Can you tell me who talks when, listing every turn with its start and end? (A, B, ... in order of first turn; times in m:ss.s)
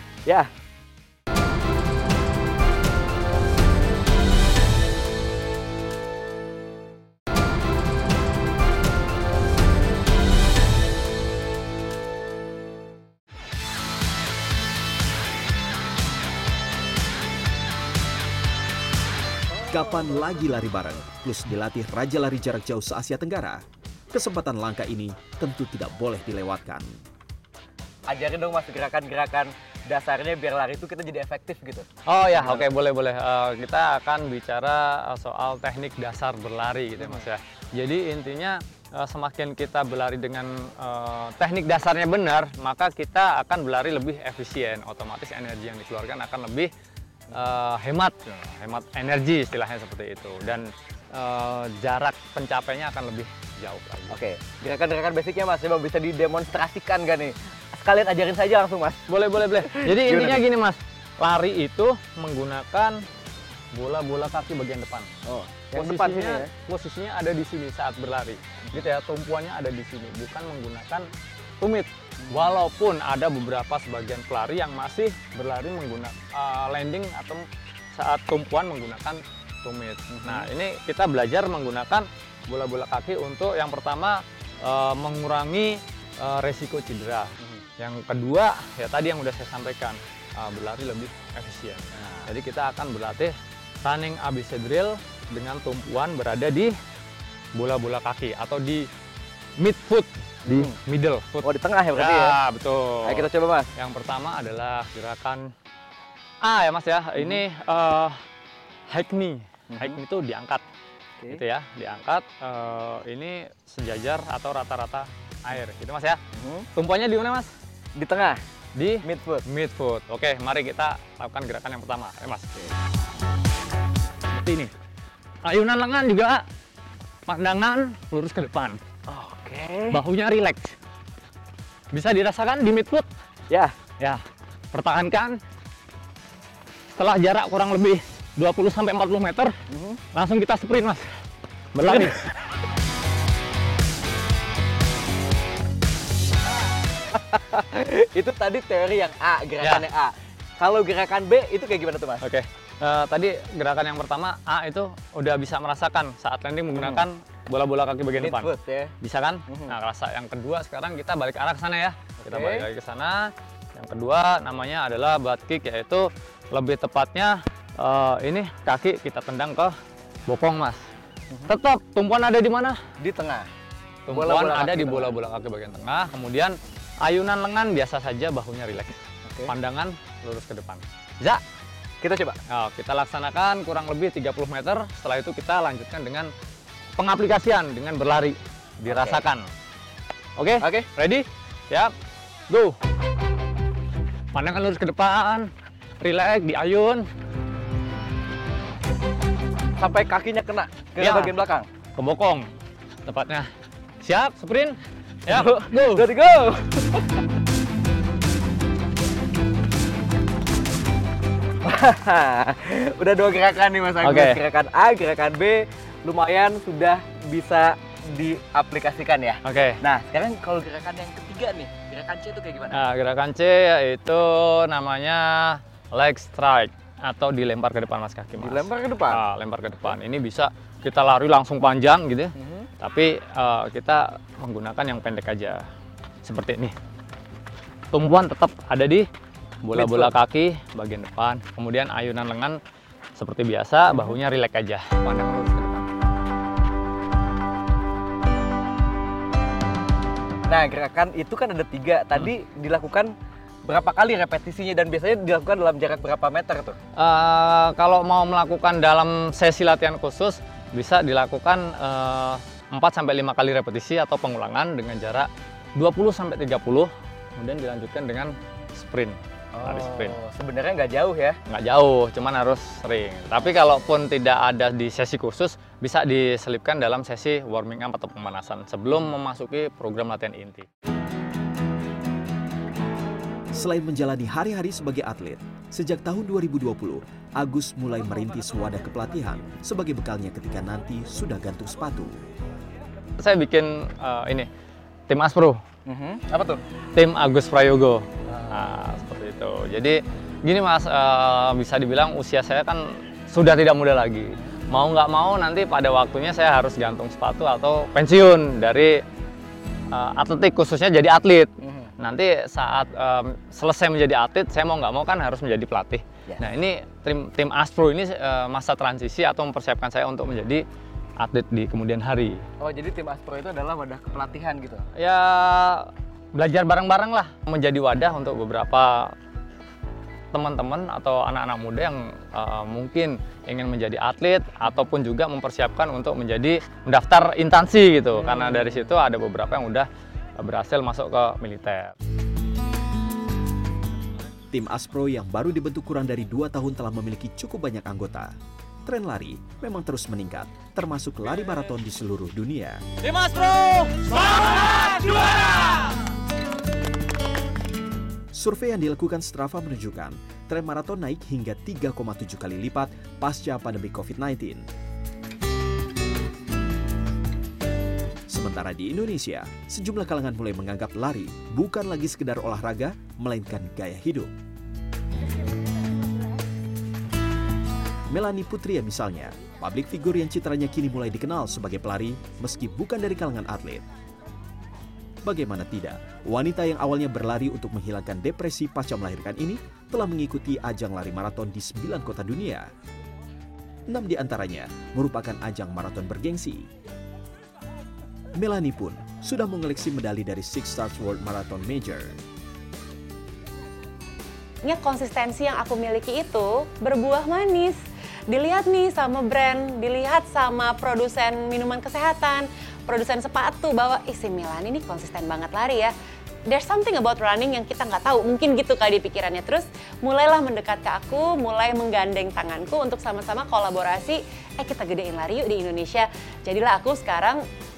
0:19.7-0:23.6 A
0:24.1-0:27.0 A
0:28.1-0:32.7 B
0:32.1-0:46.7 C
0:37.0-0:37.2 B
0:47.3-0:54.2 C
0:54.1-1:00.4 B
0:59.1-1:03.0 C
1:03.7-1:05.1 C
1:05.3-1:06.5 B
1:05.7-1:11.1 C
1:11.6-1:36.7 C
1:12.2-1:12.5 B
1:20.1-1:20.5 B
1:32.0-1:32.3 B
1:37.6-1:38.9 C
1:39.6-1:45.5 C
1:40.5-1:40.8 B
1:41.4-1:42.4 B
1:43.0-1:43.7 B
1:46.4-1:48.2 C
1:48.9-1:50.6 C
1:49.7-1:50.0 B
1:51.3-1:56.2 C
1:56.4-1:56.7 B
1:56.8-1:57.5 C
1:58.0-1:58.4 B
1:58.8-2:02.5 C
1:59.0-1:59.4 B
2:04.3-2:04.7 C
2:05.4-2:06.5 C
2:07.3-2:08.8 C
2:09.1-2:10.0 B
2:09.9-2:10.8 C
2:11.9-2:13.1 C
2:14.7-2:15.4 C
2:17.0-2:19.5 C
2:19.7-2:20.0 B
2:20.1-2:21.0 C
2:21.7-2:22.3 C
2:21.9-2:22.2 B
2:27.1-2:32.2 B
2:32.2-2:38.5 C
2:36.8-2:37.0 B
2:38.2-2:38.9 B
2:39.0-2:49.8 C
2:39.5-2:39.7 B
2:42.3-2:42.6 B
2:50.3-2:50.8 C
2:51.5-2:52.8 C
2:53.0-2:53.5 B
2:54.1-3:01.4 C
2:54.1-2:55.1 B
2:59.3-2:59.5 B
3:02.0-3:02.4 B
3:02.5-3:06.3 C
3:07.0-3:09.5 C
3:08.9-3:09.2 B
3:10.4-3:11.9 C
3:10.6-3:10.9 B
3:12.5-3:12.8 C
3:14.3-3:15.5 C
3:16.0-3:17.1 C
3:19.8-3:21.7 B
3:21.0-3:21.3 C
3:22.0-3:22.5 C
3:23.1-3:23.5 C
3:24.0-3:26.0 C
3:25.3-3:27.2 B
3:31.6-3:42.8 B
3:34.0-3:34.4 C
3:39.4-3:39.8 C
3:42.7-3:55.6 C
3:48.4-3:49.2 B
3:52.4-3:52.7 B
3:56.2-3:56.8 C
3:57.9-3:59.1 C
3:59.6-4:02.6 C
3:59.8-4:00.1 B
4:03.2-4:05.9 C
4:10.5-4:13.1 B
4:13.6-4:16.8 B
4:17.0-4:30.1 C
4:29.6-4:31.4 B
4:31.5-4:40.7 C
4:43.6-4:52.1 A
4:53.2-4:54.5 C
4:55.1-4:55.6 C
4:55.9-4:56.6 B
4:57.0-5:09.0 C
5:09.9-5:20.6 C
5:11.6-5:11.9 B
5:21.2-5:22.4 C
5:22.6-5:24.9 B
5:25.0-5:29.1 C
5:30.3-5:41.9 C
5:38.2-5:38.8 B
5:44.5-5:52.9 A
5:53.2-5:53.8 C
5:58.3-6:04.7 A
6:08.3-6:14.3 A
6:18.1-6:23.8 A
6:25.2-6:32.7 A
6:33.9-6:36.7 A
6:38.4-6:42.2 A
6:44.7-6:47.8 D
6:48.3-6:55.9 D
6:56.5-7:07.4 D